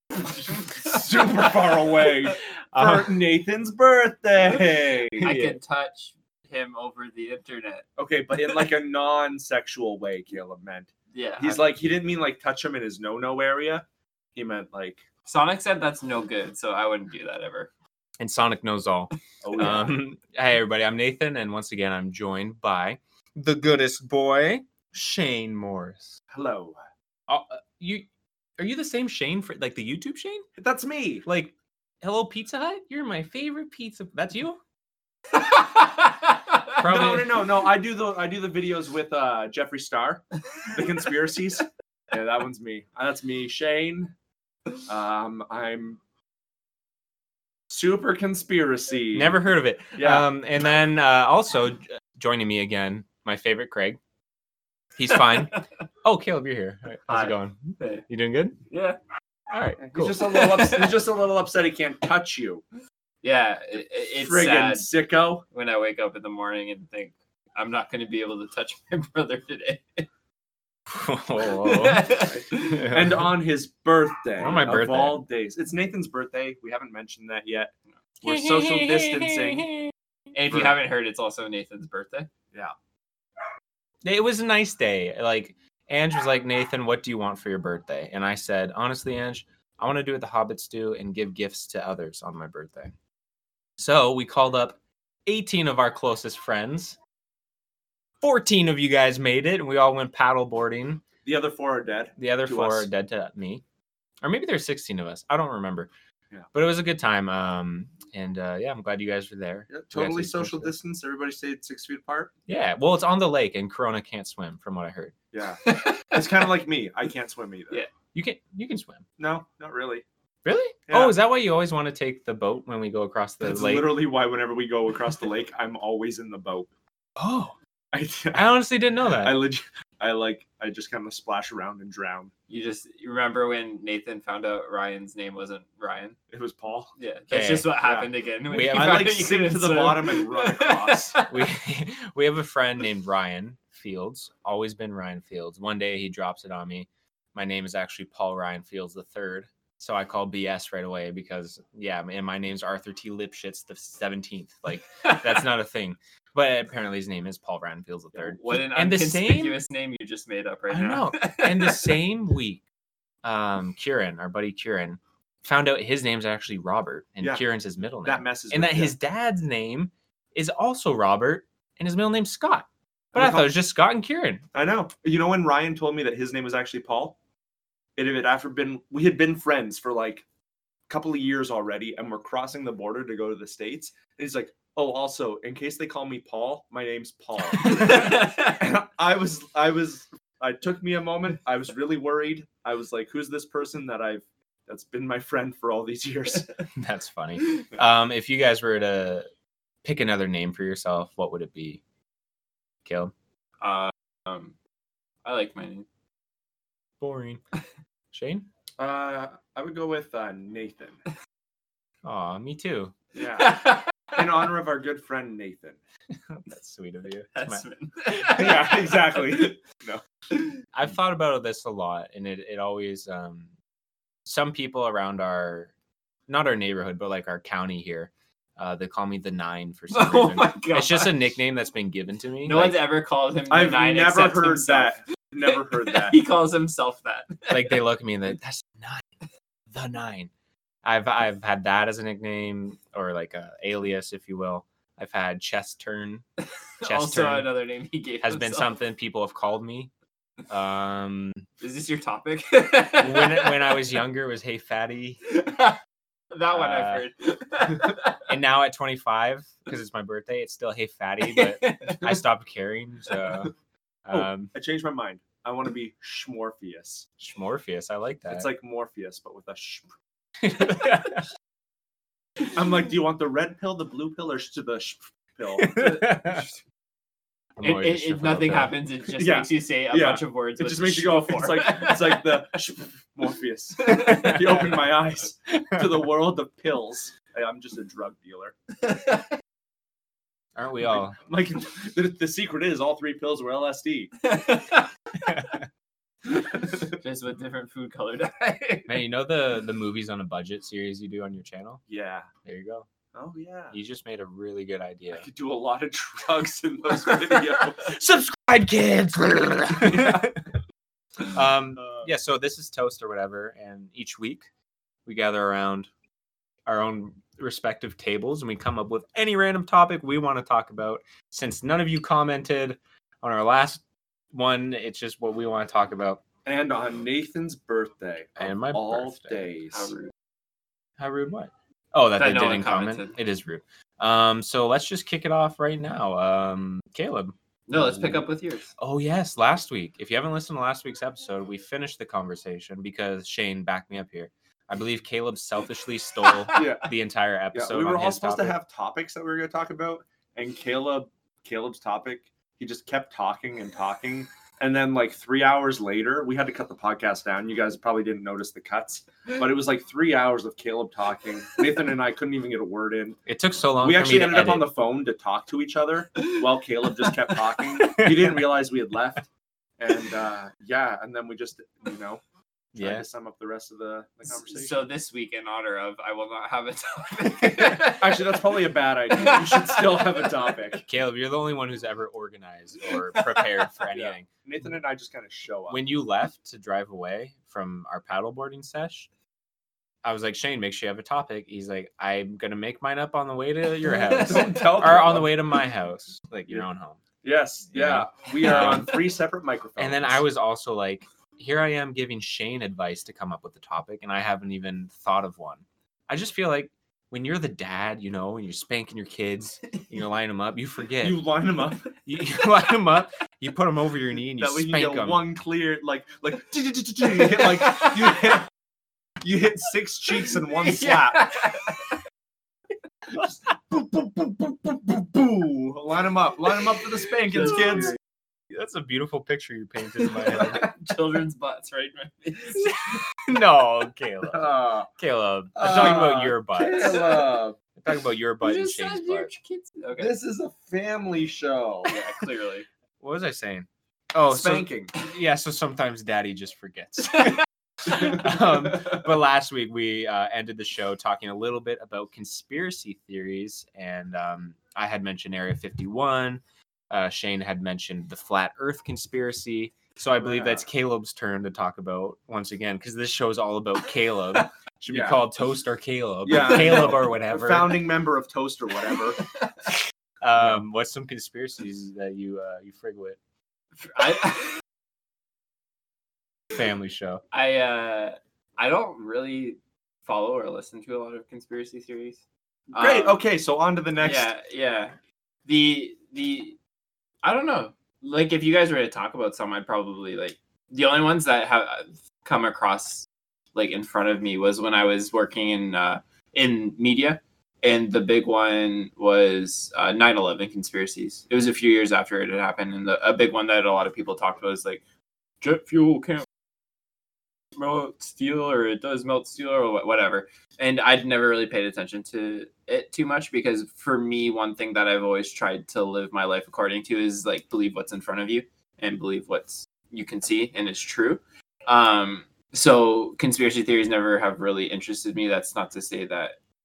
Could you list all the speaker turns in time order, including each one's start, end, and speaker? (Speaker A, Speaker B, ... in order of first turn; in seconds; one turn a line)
Speaker A: 0.2-5.3
Speaker B: 2.7-3.2
Speaker C: 5.2-7.9
Speaker B: 5.2-5.6
Speaker A: 8.0-15.0
Speaker C: 11.1-11.7
Speaker C: 15.3-17.7
Speaker B: 18.2-26.2
Speaker A: 19.4-20.0
Speaker A: 26.3-26.8
Speaker B: 27.3-28.1
Speaker B: 28.6-30.5
Speaker A: 30.6-31.2
Speaker B: 31.3-34.6
Speaker B: 36.8-37.4
Speaker A: 36.8-44.1
Speaker A: 44.9-46.0
Speaker A: 47.7-49.3
Speaker B: 49.1-54.0
Speaker A: 50.0-50.3
Speaker B: 55.0-58.6
Speaker C: 55.3-55.6
Speaker C: 57.1-58.0
Speaker C: 58.7-59.0
Speaker B: 59.5-60.4
Speaker A: 59.8-62.6
Speaker C: 60.4-60.9
Speaker C: 63.2-64.9
Speaker A: 64.2-65.4
Speaker C: 65.5-70.1
Speaker B: 70.9-73.3
Speaker C: 71.5-73.0
Speaker A: 72.2-79.7
Speaker B: 74.4-75.2
Speaker B: 78.2-79.9
Speaker C: 80.3-82.3
Speaker B: 84.0-92.9
Speaker B: 93.8-97.0
Speaker B: 98.2-101.0
Speaker A: 101.2-102.9
Speaker B: 102.2-103.6
Speaker B: 104.2-105.9
Speaker B: 106.5-110.7
Speaker A: 109.7-112.3
Speaker B: 112.5-115.1
Speaker A: 115.3-117.8
Speaker C: 115.6-116.3
Speaker B: 118.1-119.0
Speaker A: 119.2-120.0
Speaker B: 120.5-124.0
Speaker A: 120.9-121.2
Speaker A: 123.4-126.7
Speaker B: 127.2-127.5
Speaker A: 127.9-132.3
Speaker B: 128.3-129.4
Speaker C: 132.5-136.2
Speaker A: 136.3-136.9
Speaker C: 137.0-141.4
Speaker B: 137.3-137.7
Speaker A: 137.8-138.1
Speaker B: 138.5-139.3
Speaker A: 138.6-141.2
Speaker B: 141.3-159.6
Speaker C: 158.2-162.0
Speaker B: 160.7-162.6
Speaker B: 163.2-174.4
Speaker A: 168.0-168.9
Speaker A: 173.1-173.5
Speaker A: 174.5-177.2
Speaker A: 178.0-180.2
Speaker A: 180.9-196.5
Speaker C: 187.6-188.6
Speaker B: 196.8-199.3
Speaker B: 199.8-201.8
Speaker B: 202.8-203.1
Speaker C: 203.6-204.5
Speaker C: 205.2-205.9
Speaker B: 207.0-207.4
Speaker B: 208.1-208.5
Speaker A: 208.8-211.0
Speaker B: 212.0-212.9
Speaker A: 213.2-215.8
Speaker C: 213.5-213.9
Speaker B: 216.3-217.7
Speaker C: 217.3-219.5
Speaker A: 218.3-220.0
Speaker B: 220.7-223.5
Speaker B: 224.2-225.7
Speaker B: 226.3-232.8
Speaker C: 229.9-231.2
Speaker C: 232.4-237.8
Speaker A: 233.5-236.2
Speaker B: 237.5-239.1
Speaker B: 239.7-240.3
Speaker B: 240.8-246.2
Speaker C: 246.8-248.8
Speaker B: 246.8-247.5
Speaker B: 248.2-249.9
Speaker B: 250.5-251.4
Speaker C: 251.6-253.8
Speaker B: 253.0-255.2
Speaker C: 255.3-255.8
Speaker C: 256.3-258.2
Speaker B: 256.5-257.1
Speaker B: 258.3-263.5
Speaker C: 261.2-262.2
Speaker C: 263.1-263.4
Speaker B: 264.1-264.5
Speaker A: 264.1-267.1
Speaker B: 267.2-268.5
Speaker A: 268.3-269.9
Speaker B: 270.4-271.3
Speaker A: 272.5-276.1
Speaker B: 275.5-276.5
Speaker B: 277.6-278.7
Speaker C: 277.6-282.4
Speaker A: 279.2-288.6
Speaker C: 283.9-284.4
Speaker B: 284.1-284.4
Speaker B: 285.5-285.9
Speaker C: 288.9-289.3
Speaker B: 290.6-291.2
Speaker A: 291.2-294.1
Speaker C: 294.2-294.9
Speaker B: 295.2-295.6
Speaker C: 296.8-299.0
Speaker B: 298.9-301.8
Speaker A: 301.9-302.3
Speaker B: 302.4-302.9
Speaker A: 303.1-303.8
Speaker B: 303.7-305.3
Speaker A: 305.1-308.0
Speaker B: 307.9-310.4
Speaker A: 309.8-310.4
Speaker B: 311.2-314.5
Speaker A: 311.8-312.1
Speaker B: 315.1-315.9
Speaker B: 316.7-323.8
Speaker B: 324.3-326.2
Speaker A: 326.4-329.9
Speaker B: 328.4-329.5
Speaker C: 329.7-330.1
Speaker B: 331.0-338.2
Speaker C: 332.2-333.2
Speaker C: 337.7-338.7
Speaker B: 338.8-348.6
Speaker A: 346.5-346.9
Speaker A: 347.5-363.2
Speaker B: 363.3-364.7
Speaker A: 363.8-369.3
Speaker B: 367.8-368.4
Speaker A: 369.8-372.2
Speaker B: 372.8-373.1
Speaker A: 372.8-374.9
Speaker C: 374.3-378.5
Speaker A: 377.9-380.8
Speaker C: 379.1-380.3
Speaker B: 380.9-384.3
Speaker C: 383.1-383.7
Speaker A: 383.9-385.8
Speaker B: 385.7-389.1
Speaker B: 390.0-397.0
Speaker A: 393.9-395.3
Speaker C: 393.9-394.6
Speaker A: 397.2-400.2
Speaker B: 397.7-398.9
Speaker B: 399.8-411.2
Speaker A: 411.0-411.9
Speaker B: 412.1-415.2
Speaker A: 414.4-418.5
Speaker C: 417.2-417.9
Speaker A: 419.2-421.4
Speaker C: 420.5-421.9
Speaker A: 423.1-428.0
Speaker B: 428.5-430.7
Speaker C: 430.3-432.7
Speaker B: 432.6-437.2
Speaker A: 434.3-434.9
Speaker A: 435.6-437.6
Speaker B: 437.8-439.3
Speaker C: 438.4-440.1
Speaker A: 440.0-442.0
Speaker C: 441.9-442.7
Speaker B: 443.0-467.8
Speaker A: 444.3-444.9
Speaker A: 460.2-460.6
Speaker A: 464.9-465.2
Speaker A: 466.2-469.2
Speaker B: 470.2-473.2
Speaker A: 470.4-470.6
Speaker C: 473.8-474.6
Speaker B: 476.5-477.2
Speaker C: 477.3-482.2
Speaker C: 482.7-483.2
Speaker A: 482.7-484.3
Speaker C: 484.0-486.6
Speaker C: 487.2-504.8
Speaker C: 505.4-506.3
Speaker C: 507.6-526.4